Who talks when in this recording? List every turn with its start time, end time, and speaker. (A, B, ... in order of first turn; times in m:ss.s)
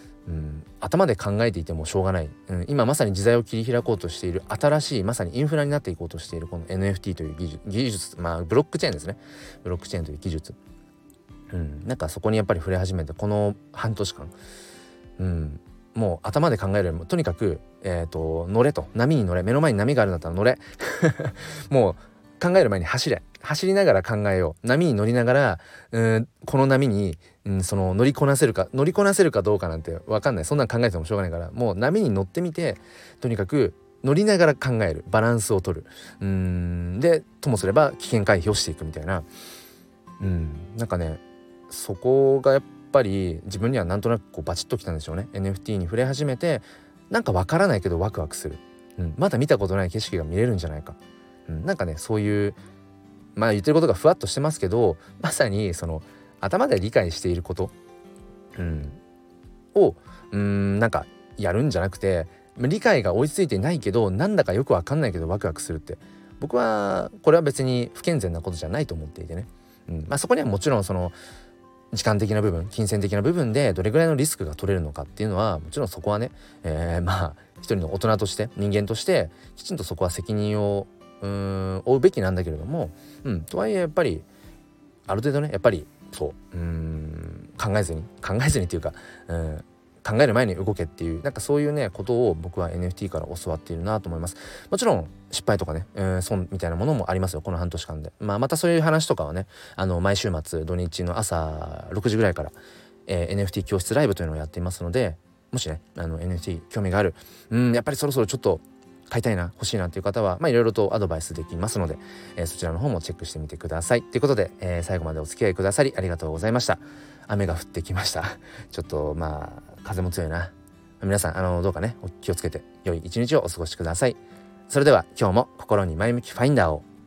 0:00.3-0:10.6 A
0:11.5-0:14.3 A
0:15.2-0:39.3 A
0:40.2-0:52.6 A
0:53.4-0:57.7 A
0:58.6-0:59.0 A
0:59.7-1:11.2 A
1:11.9-1:24.3 A
1:25.1-1:42.6 A
1:43.1-2:06.9 A